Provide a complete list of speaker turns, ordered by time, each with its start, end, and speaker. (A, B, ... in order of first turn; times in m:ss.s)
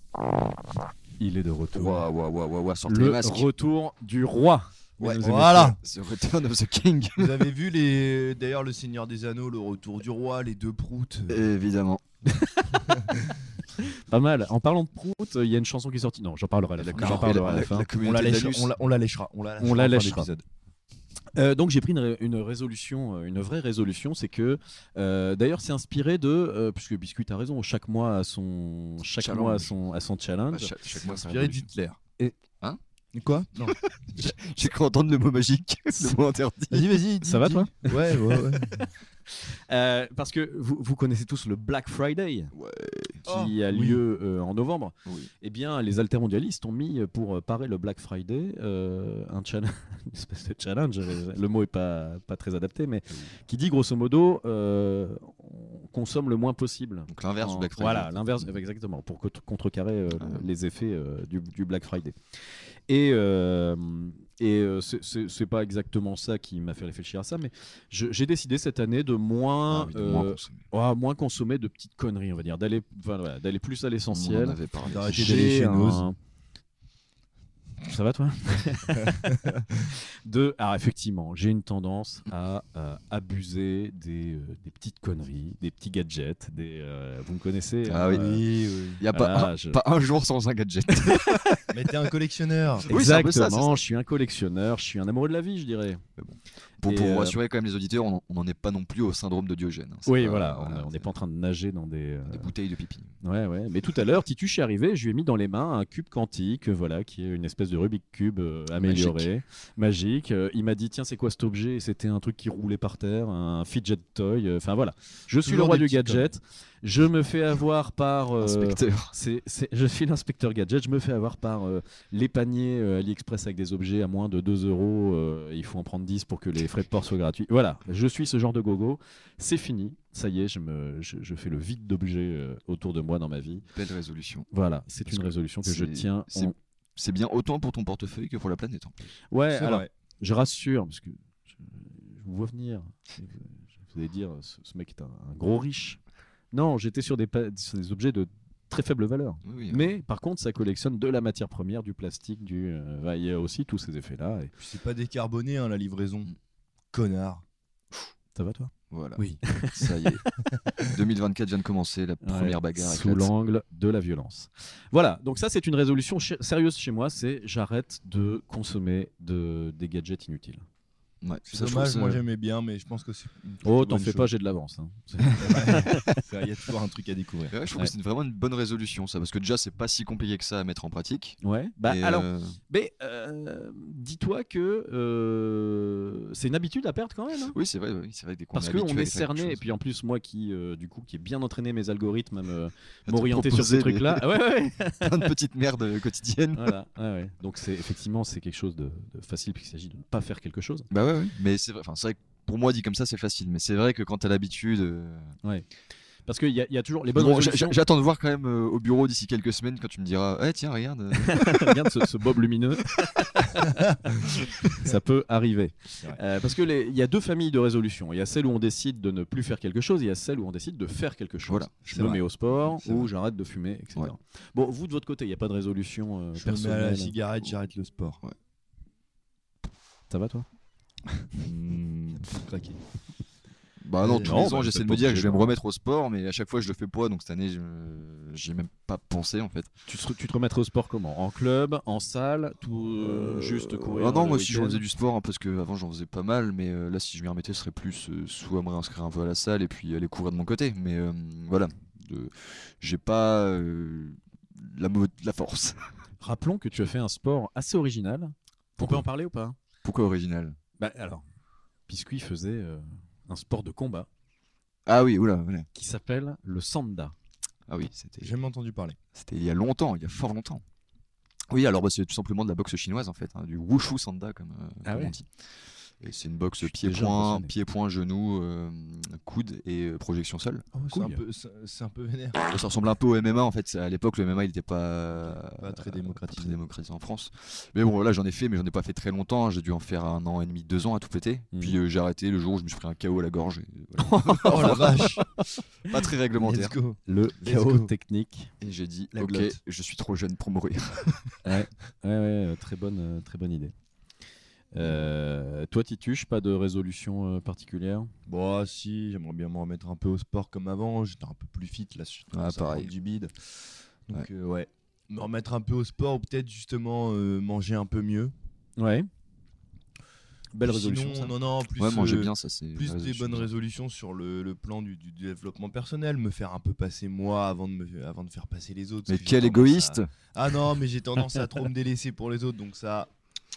0:01.2-0:02.1 A
0:01.7-0:03.5 B
0:02.9-0:05.8 A
0:05.0-0:05.8 C
0:05.8-0:07.4 B
0:07.2-0:11.5 C
0:11.3-0:12.0 B
0:12.3-0:12.8 A
0:12.8-0:13.3 C
0:13.8-0:17.9 A
0:16.8-0:18.7 B
0:17.0-0:20.4 C
0:19.6-0:20.3 A
0:21.4-0:30.7 A
0:29.2-0:29.7 B
0:30.5-0:31.7 B
0:30.9-0:32.0 C
0:33.1-0:33.8 C
0:34.0-0:36.9 B
0:36.7-0:38.9 C
0:37.2-0:38.4 A
0:39.3-0:42.5 A
0:42.5-0:43.2 B
0:43.2-0:44.0 C
0:43.3-1:02.2 A
0:57.1-0:58.5 B
1:00.1-1:00.4 B
1:02.9-1:16.2 A
1:09.7-1:10.6 B
1:14.1-1:15.5 B
1:14.8-1:16.1 C
1:17.9-1:28.4 A
1:19.3-1:19.6 C
1:27.9-1:28.4 B
1:28.1-1:29.0 C
1:29.0-1:31.4 B
1:29.1-1:29.8 A
1:31.0-1:31.6 A
1:31.7-1:32.9 C
1:32.9-1:33.8 B
1:32.9-1:36.0 A
1:36.2-1:41.1 B
1:36.8-1:37.4 A
1:40.1-1:42.5 A
1:42.3-1:43.1 B
1:43.2-2:13.6 A
1:48.8-1:49.3 B
1:55.4-1:56.3 B
1:58.4-1:59.1 B
2:13.7-2:14.5 B
2:14.5-2:16.5 A
2:15.1-2:19.0 B
2:19.3-2:26.0 A
2:19.5-2:19.9 C
2:26.5-2:34.5 A
2:29.4-2:29.9 B
2:34.6-2:36.3 C
2:36.9-2:37.4 C
2:38.4-2:40.4 A
2:38.9-2:40.2 B
2:40.8-2:43.3 B
2:42.2-2:50.6 A
2:51.2-2:52.2 B
2:51.5-2:54.3 C
2:53.6-2:56.1 A
2:55.4-2:57.6 C
2:57.5-3:02.6 B
3:01.4-3:07.6 A
3:07.5-3:09.6 B
3:08.5-3:15.3 A
3:13.1-3:14.3 B
3:15.0-3:16.7 B
3:16.5-3:20.9 A
3:20.9-3:25.3 B
3:26.3-3:27.8 A
3:27.2-3:31.8 B
3:31.2-3:47.1 A
3:41.5-3:41.8 B
3:41.9-3:43.1 C
3:46.4-3:48.2 C
3:50.1-3:50.5 A
3:51.4-3:52.3 B
3:52.2-3:52.8 C
3:53.8-3:59.7 B
3:54.0-3:54.5 C
3:54.1-3:55.5 A
3:59.9-4:04.8 A
4:03.0-4:15.9 B
4:16.2-4:19.6 A
4:18.8-4:19.0 B
4:19.8-4:20.6 B
4:20.8-4:21.2 A
4:21.9-4:24.1 A
4:24.9-4:25.7 B
4:25.7-4:27.1 A
4:27.7-4:28.3 B
4:28.2-4:29.0 C
4:29.1-4:30.6 B
4:31.5-4:40.7 B
4:34.8-4:35.1 A
4:36.6-4:37.5 A
4:40.7-4:42.4 C
4:40.9-4:41.2 A
4:42.5-4:55.1 B
4:45.1-4:46.6 C
4:51.5-4:51.8 A
4:54.0-4:55.4 A
4:54.4-4:55.3 C
4:55.8-4:56.8 B
4:56.4-4:57.9 C
4:57.1-4:58.5 A
4:58.6-5:01.4 B
4:59.1-4:59.6 C
5:01.4-5:03.7 A
5:04.7-5:08.1 A
5:08.3-5:13.5 C
5:12.3-5:12.9 B
5:14.1-5:18.3 C
5:18.8-5:19.1 A
5:20.5-5:21.3 A
5:20.6-5:33.1 C
5:21.8-5:23.5 B
5:29.1-5:30.1 B